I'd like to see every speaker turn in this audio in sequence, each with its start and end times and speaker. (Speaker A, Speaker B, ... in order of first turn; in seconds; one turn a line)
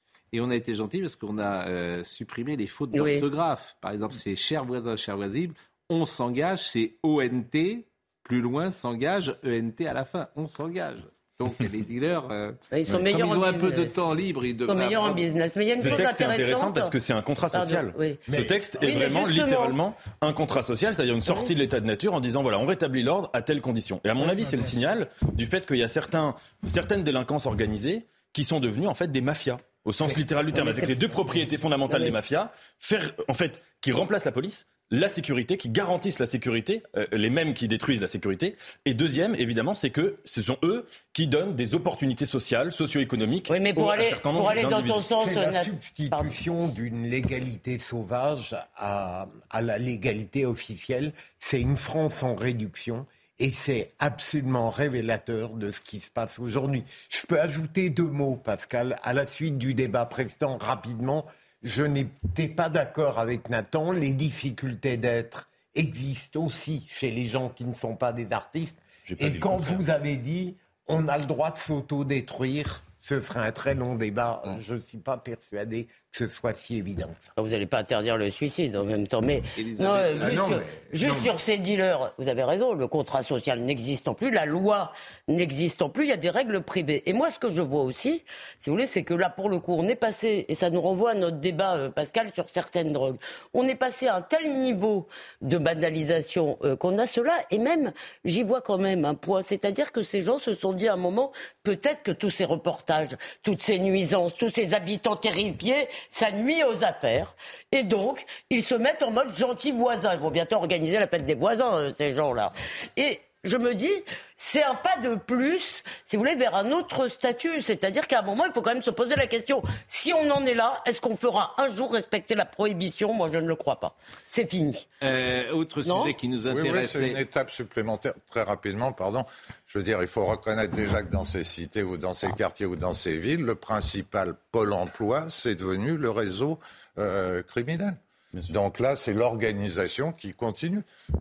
Speaker A: 0.3-15.2
Speaker B: 2.9-3.3
Speaker B: 12.7-14.1
Speaker B: 14.6-16.9
Speaker C: 15.8-45.0
Speaker B: 17.5-19.8
Speaker B: 21.2-21.5
Speaker B: 31.9-32.1
Speaker B: 43.5-46.4
Speaker D: 44.4-77.3
Speaker A: 69.1-69.8
Speaker B: 77.4-124.9
Speaker A: 79.5-80.7
Speaker D: 80.2-81.3
Speaker A: 125.0-127.2
Speaker B: 125.8-126.1
Speaker E: 126.5-140.8